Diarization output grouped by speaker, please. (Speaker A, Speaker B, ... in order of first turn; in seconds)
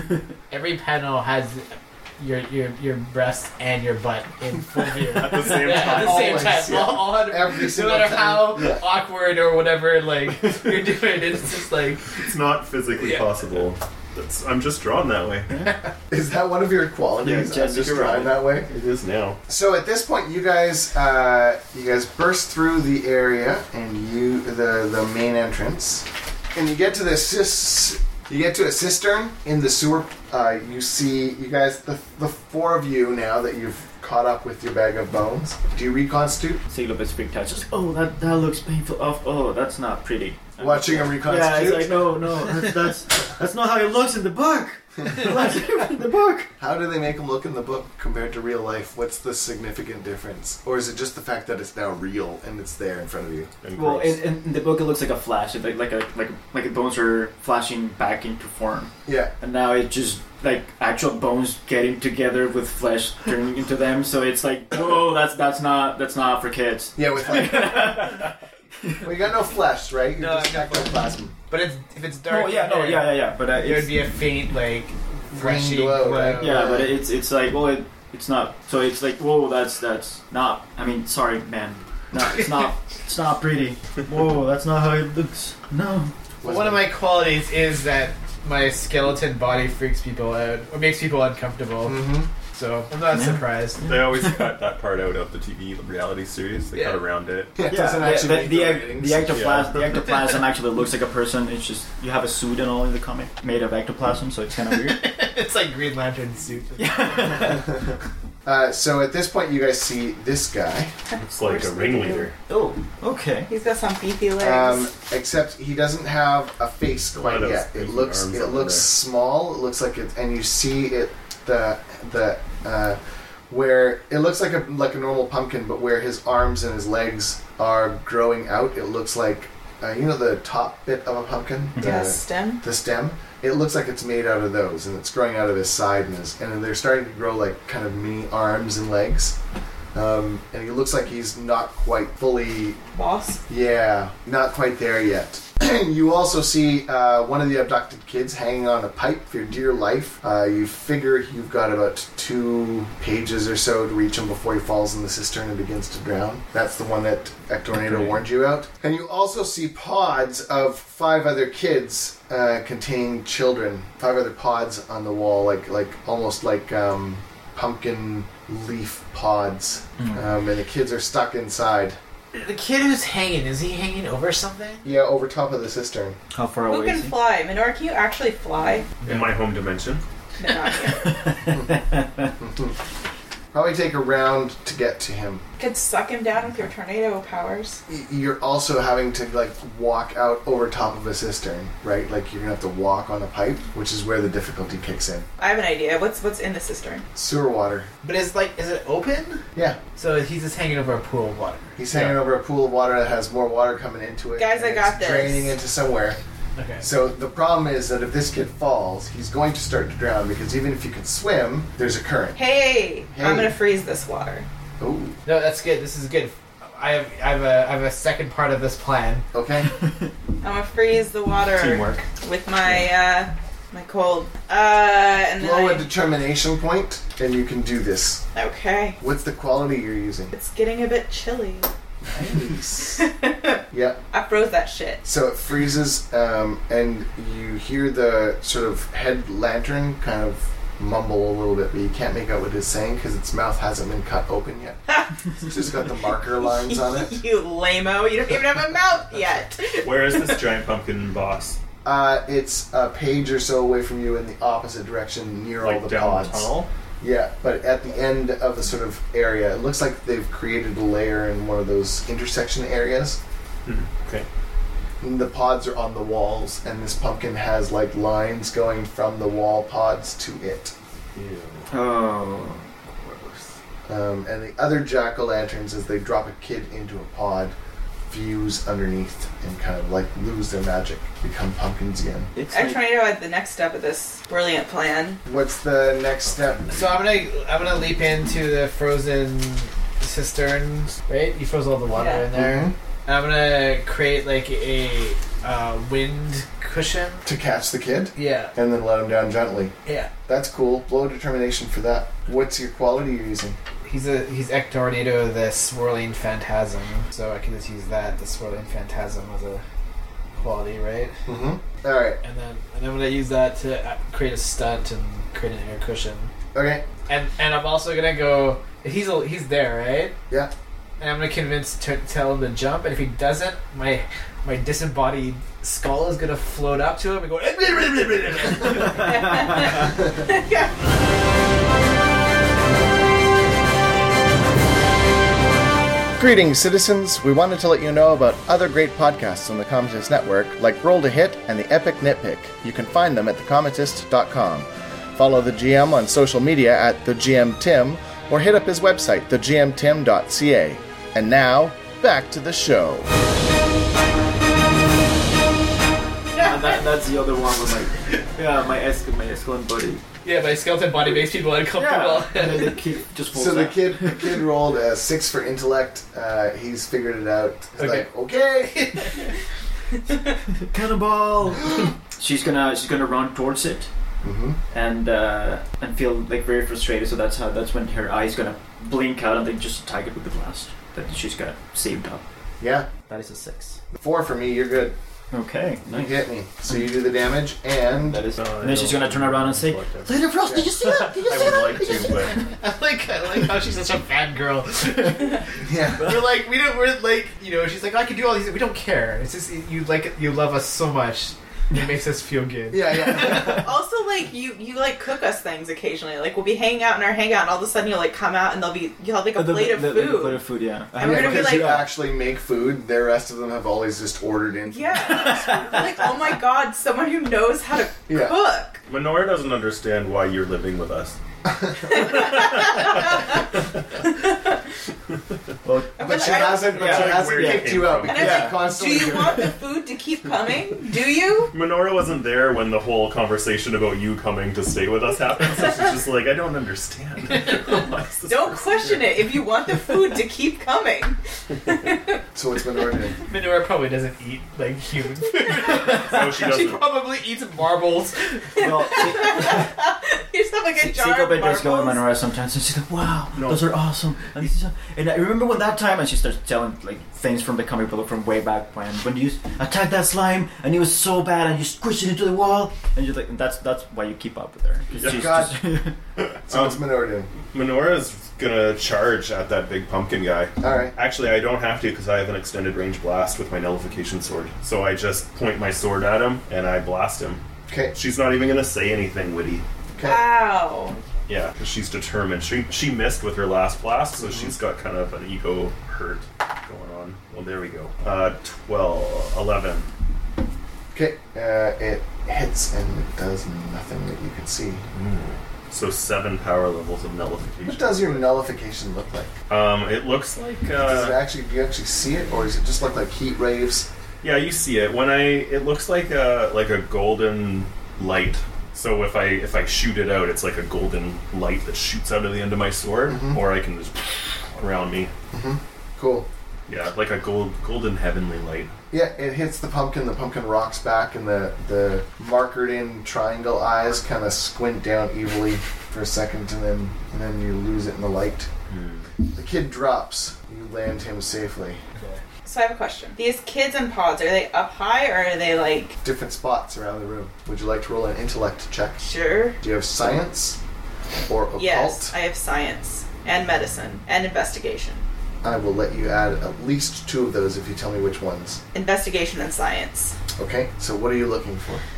Speaker A: 0.5-12.1, 13.0-13.2, 70.2-70.9, 71.5-76.6, 86.4-93.8, 96.7-97.0, 104.7-107.5, 172.3-174.9, 179.0-179.3, 198.0-199.4, 199.9-202.2, 206.6-206.8, 215.2-219.2, 286.7-297.2, 298.1-298.5, 303.9-309.6, 310.3-311.2, 312.2-316.3, 317.1-320.1, 321.0-329.5, 360.2-362.8, 367.8-368.1, 368.6-369.3, 392.3-403.6, 443.3-449.1, 531.9-532.2
Speaker B: 5.0-6.6, 12.1-15.5, 18.6-19.4, 53.6-54.2, 93.8-97.5, 99.3-100.2, 111.2-112.3, 117.1-118.9, 179.0-180.0, 221.6-222.1, 249.8-251.6, 255.6-256.7, 263.6-264.3, 271.1-271.7, 286.2-286.7, 388.4-390.2, 391.0-392.4, 418.9-421.2, 422.6-423.1, 426.6-428.4, 431.5-439.1, 445.8-446.8, 453.3-453.7, 465.0-465.3, 466.2-466.8, 467.5-477.4, 477.9-479.6, 481.3-489.9, 494.9-498.3, 499.5-501.2, 504.2-515.1, 516.7-518.7, 528.7-529.1
Speaker C: 5.5-8.8, 16.1-18.7, 19.5-36.6, 40.6-42.1, 46.6-53.5, 59.0-59.3, 67.0-68.2, 69.0-71.3, 75.3-77.0, 86.4-86.9, 91.8-92.3, 97.5-99.4, 107.5-107.9, 108.4-111.0, 114.4-139.4, 139.9-142.8, 143.5-172.0, 174.8-176.2, 181.5-181.8, 182.4-182.8, 183.5-185.4, 187.9-195.3, 197.1-197.9, 201.8-206.2, 206.8-212.4, 213.1-213.5, 214.8-215.2, 219.3-219.7, 225.4-228.2, 229.0-230.3, 232.0-233.1, 233.7-234.0, 235.0-244.8, 245.4-247.2, 251.8-256.5, 257.0-263.2, 265.0-270.7, 273.9-277.5, 278.1-282.3, 285.2-286.9, 292.3-292.7, 297.2-299.7, 300.3-303.6, 311.2-312.2, 316.5-316.8, 336.2-353.1, 363.3-369.1, 374.2-374.6, 382.6-382.9, 383.9-384.9, 385.9-388.2, 390.4-390.9, 395.6-396.2, 402.7-403.7, 411.0-415.8, 418.1-418.4, 421.4-422.1, 426.0-429.5, 442.3-443.2, 465.0-465.6, 466.5-467.3, 470.6-470.9, 477.7-477.9, 479.9-480.2, 490.9-494.8, 497.6-499.3, 500.8-503.9, 513.1-513.4, 515.3-516.3, 518.9-528.5, 529.3-531.8, 536.0-539.0, 539.6-540.6, 541.3-542.1, 545.4-548.6, 550.4-551.8
Speaker D: 17.2-18.4, 36.7-46.5, 53.7-68.3, 72.3-74.0, 76.4-86.1, 93.1-94.4, 97.7-105.0, 106.8-107.7, 112.5-113.5, 131.8-132.0, 170.0-170.3, 176.3-177.2, 181.3-182.3, 271.7-273.5, 282.3-282.9, 356.4-360.0, 361.7-364.4, 370.7-373.9, 374.7-382.2, 383.1-383.8, 385.3-386.2, 388.0-392.4, 409.3-411.9, 415.3-415.7, 425.6-428.6, 448.6-449.7, 450.8-465.9
Speaker E: 111.1-112.3, 113.5-114.9, 131.8-132.6, 142.9-143.4, 176.7-178.9, 180.4-181.3, 185.6-187.8, 195.4-197.1, 204.4-205.6, 212.3-214.4, 220.4-225.9, 228.3-229.0, 230.3-231.7, 232.9-233.6, 234.1-235.0, 244.9-245.1, 246.4-250.4, 282.5-285.2, 291.9-292.3, 329.0-330.7, 356.3-356.8, 403.2-411.8, 414.7-418.8, 421.8-423.4, 424.1-424.6, 425.9-427.0, 428.0-431.5, 438.3-442.2, 448.6-452.0, 480.0-481.0, 532.4-536.0, 539.0-539.6, 541.5-545.0, 548.7-550.1